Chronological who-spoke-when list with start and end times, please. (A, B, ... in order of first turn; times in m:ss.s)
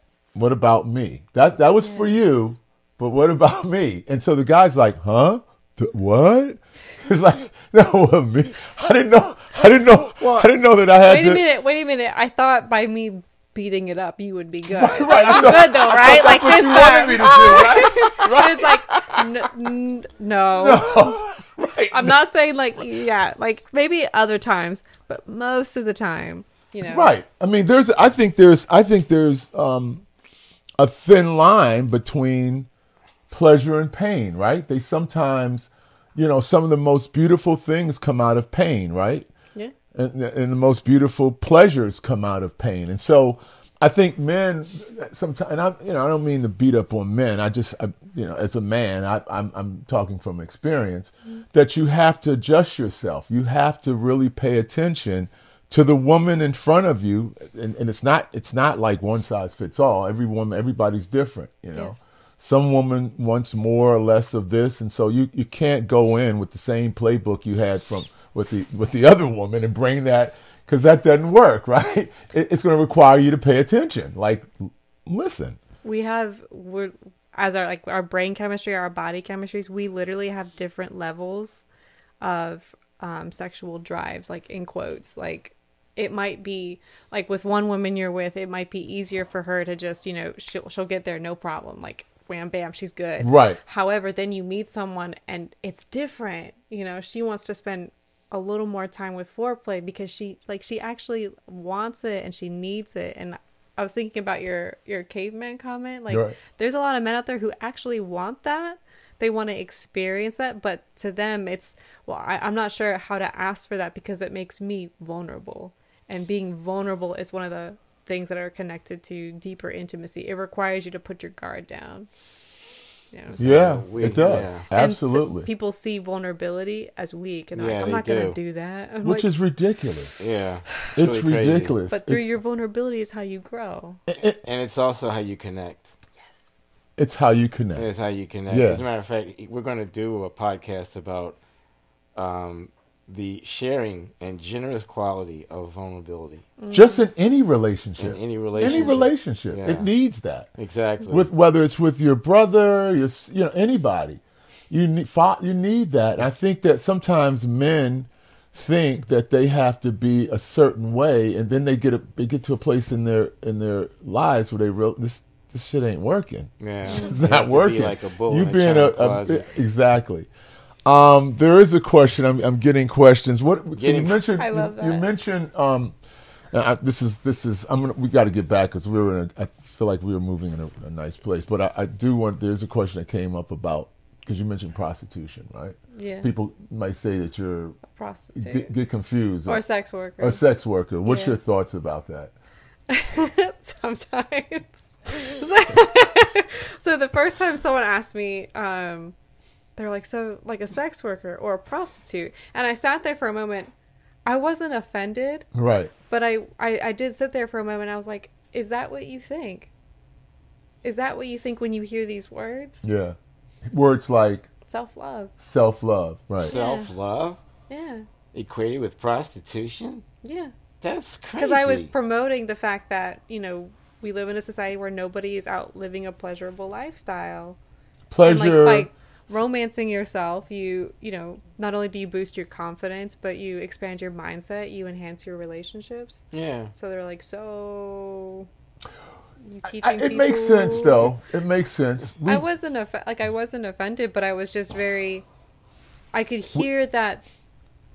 0:00.3-0:11.4 A
0:01.8-0:02.5 B
0:10.2-0:21.2 B
0:14.7-0:19.3 A
0:20.6-0:22.1 A
0:21.9-0:27.1 B
0:26.8-0:30.0 A
0:30.8-0:32.7 A
0:33.3-0:39.3 A
0:39.9-1:15.6 A
1:01.7-1:02.0 B
1:15.8-1:21.6 B
1:22.2-2:02.1 B
1:33.2-1:33.6 A
1:46.1-1:46.4 A
2:03.1-2:03.4 B
2:03.4-2:04.6 C
2:03.4-2:05.5 A
2:04.7-2:09.3 B
2:07.5-2:08.4 C
2:09.0-2:10.2 A
2:10.2-2:11.7 C
2:10.9-2:12.2 A
2:11.9-2:14.0 B
2:14.1-2:14.4 A
2:14.4-2:15.9 C
2:16.2-2:16.6 B
2:17.0-2:17.9 A
2:17.8-2:21.4 C
2:18.5-2:18.8 A
2:22.1-2:26.5 C
2:26.6-2:27.1 B
2:26.7-2:30.5 A
2:28.0-2:29.9 C
2:28.6-2:29.0 B
2:30.6-2:31.3 C
2:31.1-2:50.3 A
2:46.6-2:49.5 C
2:46.8-2:47.2 B
2:50.8-2:56.0 A
2:53.8-2:54.2 C
2:54.4-2:55.1 B
2:56.5-3:07.8 A
3:05.9-3:06.3 B
3:07.8-3:08.7 B
3:08.4-3:09.6 A
3:09.4-3:10.4 B
3:10.2-3:12.3 A
3:11.0-3:11.4 B
3:12.9-3:19.1 B
3:19.8-3:23.7 B
3:24.2-3:25.5 B
3:25.5-3:25.9 A
3:26.1-3:29.7 B
3:30.8-3:32.8 B
3:32.8-3:34.5 A
3:34.7-3:35.3 B
3:35.4-3:36.5 A
3:36.4-3:36.9 B
3:36.4-3:37.4 C
3:37.7-3:38.1 B
3:38.3-3:40.0 C
3:40.2-3:40.5 B
3:40.8-3:41.9 C
3:41.4-3:47.6 B
3:48.1-3:48.9 A
3:48.2-3:58.5 B
3:56.3-3:56.7 C
3:59.4-4:01.1 B
3:59.6-4:02.4 A
4:02.2-4:05.2 B
4:06.1-4:07.2 B